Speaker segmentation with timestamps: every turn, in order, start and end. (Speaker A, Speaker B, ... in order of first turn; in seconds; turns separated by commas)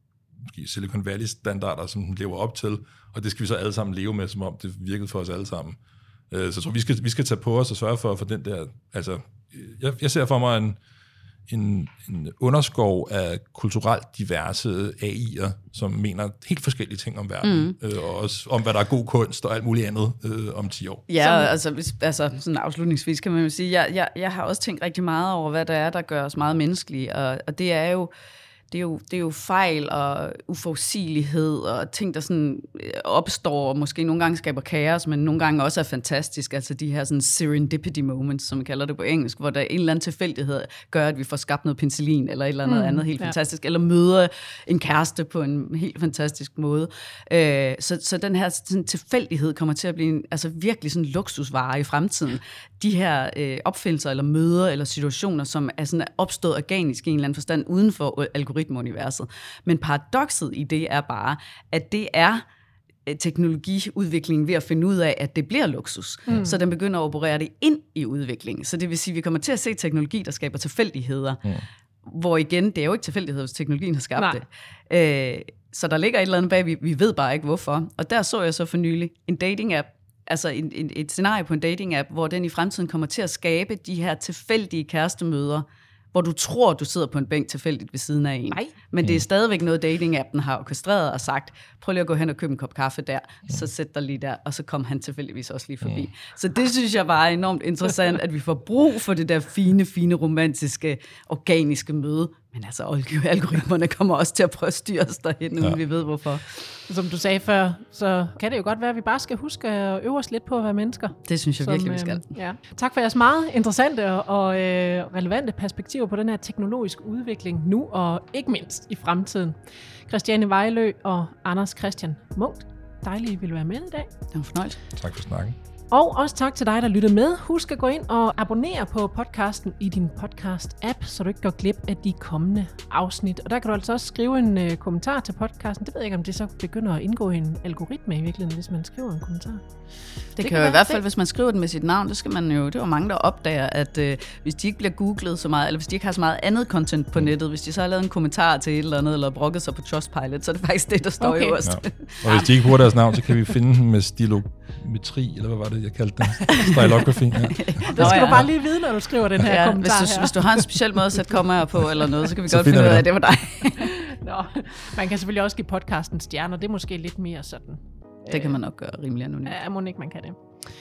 Speaker A: 0.3-5.8, Speaker A: 6.3-10.8, Speaker A: 11.5-21.1, Speaker B: 17.4-17.8, Speaker B: 21.1-28.1, Speaker C: 21.2-21.5, Speaker B: 28.7-62.4, Speaker C: 42.6-43.3, Speaker B: 63.0-71.4, Speaker C: 66.3-66.5, Speaker B: 72.0-106.7, Speaker C: 106.9-124.1, Speaker B: 111.2-112.3, Speaker B: 124.3-124.8, Speaker A: 124.9-125.5, Speaker C: 125.9-139.7, Speaker C: 140.2-141.0, Speaker B: 140.4-152.6, Speaker C: 151.2-151.6, Speaker A: 151.6-158.4, Speaker B: 156.5-156.8, Speaker B: 157.5-158.5, Speaker C: 157.9-160.6, Speaker B: 159.4-164.2, Speaker A: 162.5-163.1, Speaker C: 164.2-168.6, Speaker B: 168.3-169.6, Speaker C: 169.4-170.4